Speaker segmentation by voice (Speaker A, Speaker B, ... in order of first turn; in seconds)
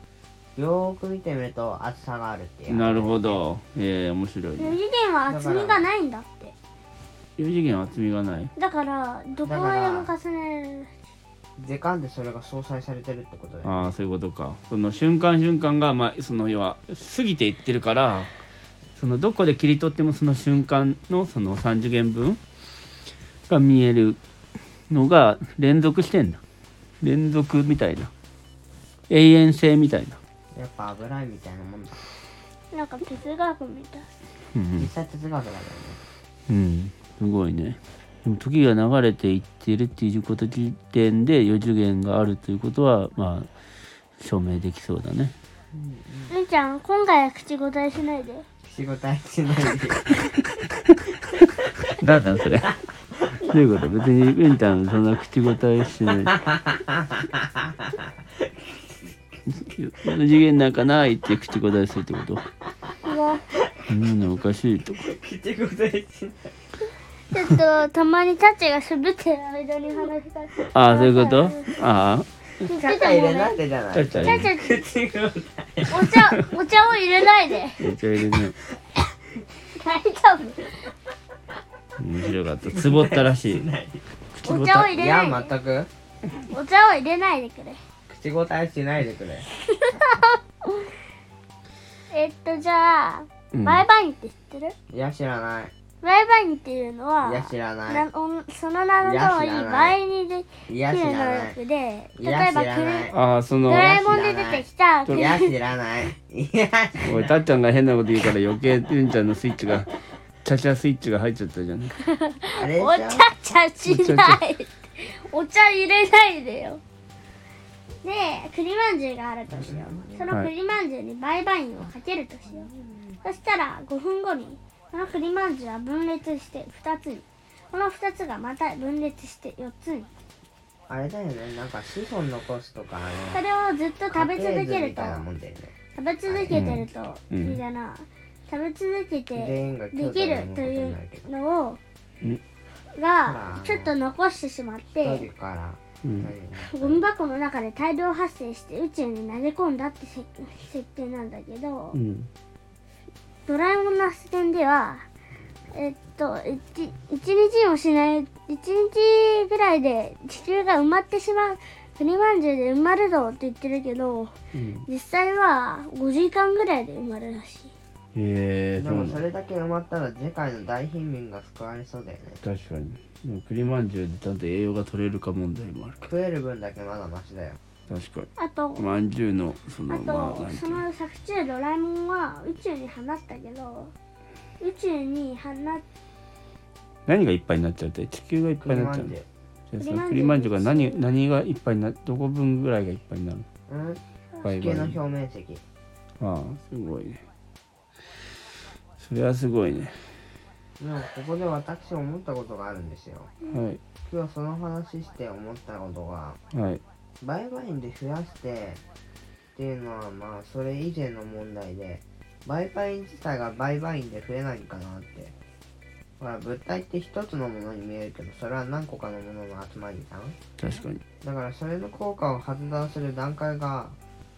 Speaker A: 0.6-3.4, 5.3-5.9, 9.4-10.1, 11.6-13.9, 30.5-32.1, 34.8-36.0, 45.7-46.3, 48.6-50.2, 56.2-57.9, 65.0-66.5, 72.7-76.0, 82.7-84.0, 84.9-85.9, 88.1-89.4, 94.9-95.7, 97.2-98.0, 99.0-100.0, 100.7-101.6, 102.2-103.1, 103.7-107.3, 112.5-113.2, 119.5-120.3, 130.9-133.4, 134.1-135.7, 136.3-136.6, 139.3-141.3, 143.2-143.9, 144.9-147.0, 168.8-172.4, 176.0-177.6, 188.6-189.2, 193.7-194.0, 194.5-195.6, 200.8-203.3, 204.0-206.4, 207.2-208.8, 209.5-215.3, 216.2-220.3, 221.2-223.9
Speaker B: 2.7-4.8, 7.4-8.5, 13.6-18.3, 19.0-22.4, 23.5-24.2, 24.9-26.4, 27.0-28.1, 29.1-30.2, 34.5-34.9, 36.5-43.5, 44.2-45.3, 51.9-52.8, 53.3-56.4, 59.5-62.5, 63.9-65.1, 70.7-72.3, 73.9-74.5, 77.8-78.5, 82.0-83.7, 84.3-85.0, 93.5-93.8, 103.1-103.9, 105.0-105.3, 107.0-109.9, 110.4-111.9, 113.8-114.4, 136.5-137.6, 146.0-146.3, 151.9-152.3, 164.5-164.8, 168.1-169.2, 172.4-176.1, 177.9-180.8, 187.1-189.1, 189.7-193.4, 194.4-194.9, 196.2-197.2, 199.0-199.9, 203.5-203.8, 206.5-206.8, 220.6-221.0
Speaker C: 4.6-6.5, 8.6-10.9, 32.7-34.1, 46.3-48.4, 63.0-63.4, 67.3-71.7, 72.6-73.6, 74.2-74.8, 75.9-77.8, 79.6-80.9, 84.4-85.5, 86.5-87.8, 89.6-90.9, 92.1-94.7, 96.0-105.5, 112.0-116.8, 118.0-122.7, 123.2-130.1, 133.3-135.2, 135.9-141.8, 142.9-145.3, 146.6-152.0, 153.4-155.1, 155.7-164.3, 164.8-167.7, 178.4-179.0, 179.9-183.9, 184.6-185.8, 189.8-191.0